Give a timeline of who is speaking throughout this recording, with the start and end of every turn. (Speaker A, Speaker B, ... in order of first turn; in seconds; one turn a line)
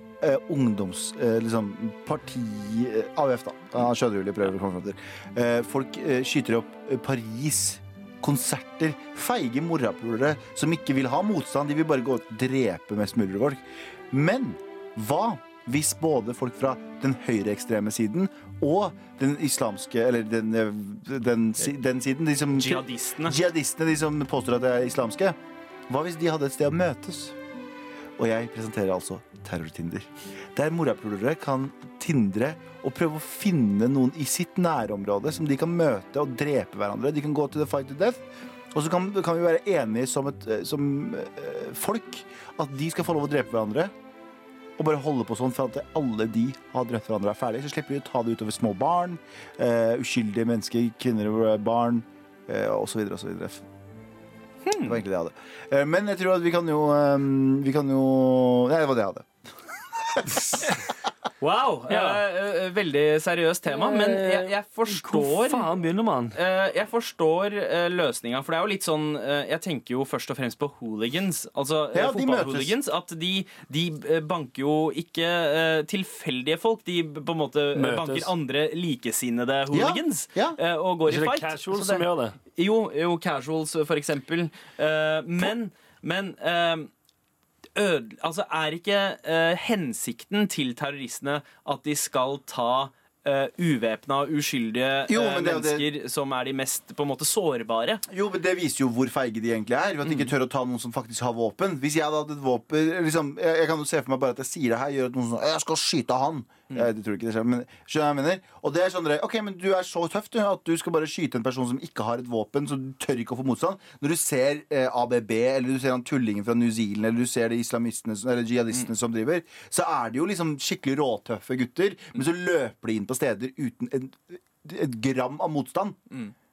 Speaker A: 0.2-25.4
Speaker B: 22.5-23.4
Speaker A: 25.9-27.3
Speaker A: 28.2-38.2
Speaker A: 38.7-43.9
Speaker A: 44.8-53.6
Speaker B: 54.6-55.0
Speaker A: 54.8-59.3
Speaker A: 60.1-60.4
Speaker B: 61.4-65.7
Speaker C: 61.9-62.2
Speaker C: 63.7-66.4
Speaker B: 66.3-86.9
Speaker A: 71.9-72.8
Speaker C: 77.7-78.3
Speaker A: 79.7-80.6
Speaker C: 81.1-82.3
Speaker B: 87.7-98.0
Speaker A: 95.1-95.9
Speaker A: 98.1-126.0
Speaker B: 100.0-100.3